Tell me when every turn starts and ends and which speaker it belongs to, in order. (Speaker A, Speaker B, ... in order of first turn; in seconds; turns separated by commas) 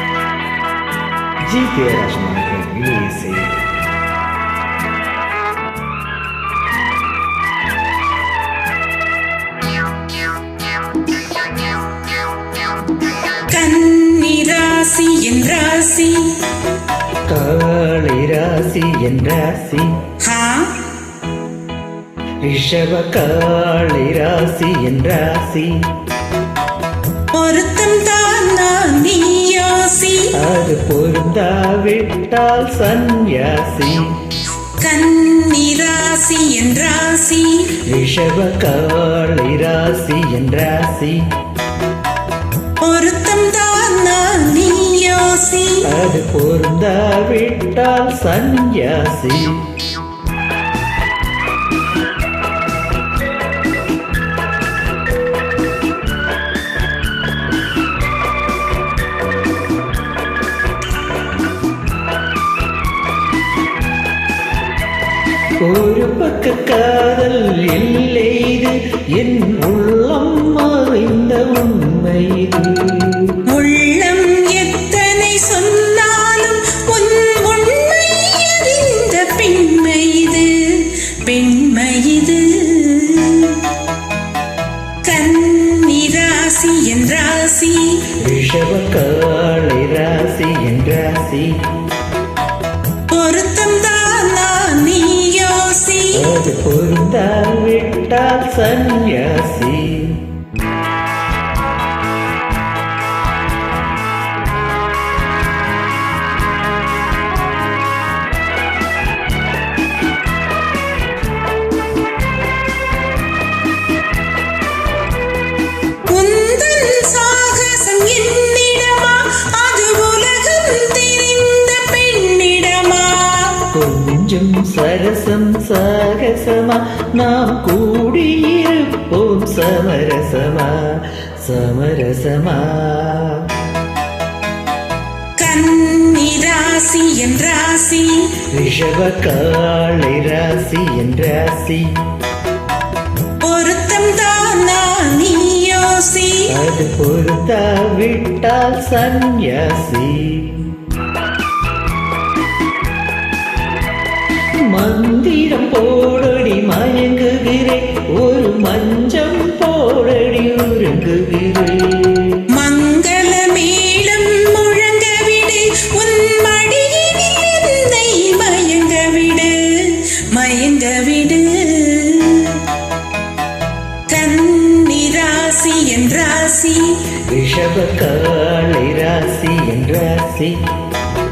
Speaker A: 1.5-3.5, Speaker B: 13.5-16.4, Speaker A: 17.3-20.0, Speaker B: 20.2-20.8, Speaker A: 22.4-25.8, Speaker B: 27.3-30.3, Speaker A: 30.3-34.1, Speaker B: 34.8-37.7, Speaker A: 37.9-41.2, Speaker B: 42.8-45.9, Speaker A: 45.8-49.7, Speaker A: 65.6-73.4, Speaker B: 73.5-83.7, Speaker B: 85.0-88.1, Speaker A: 88.2-91.6, Speaker B: 93.1-96.3, Speaker A: 96.1-100.2, Speaker B: 116.1-123.7, Speaker A: 123.7-133.5, Speaker B: 135.4-138.4, Speaker A: 138.5-141.9, Speaker B: 143.4-146.5, Speaker A: 146.5-150.7, Speaker A: 154.7-162.4, Speaker B: 162.5-172.7, Speaker B: 174.1-177.0, Speaker A: 177.3-180.6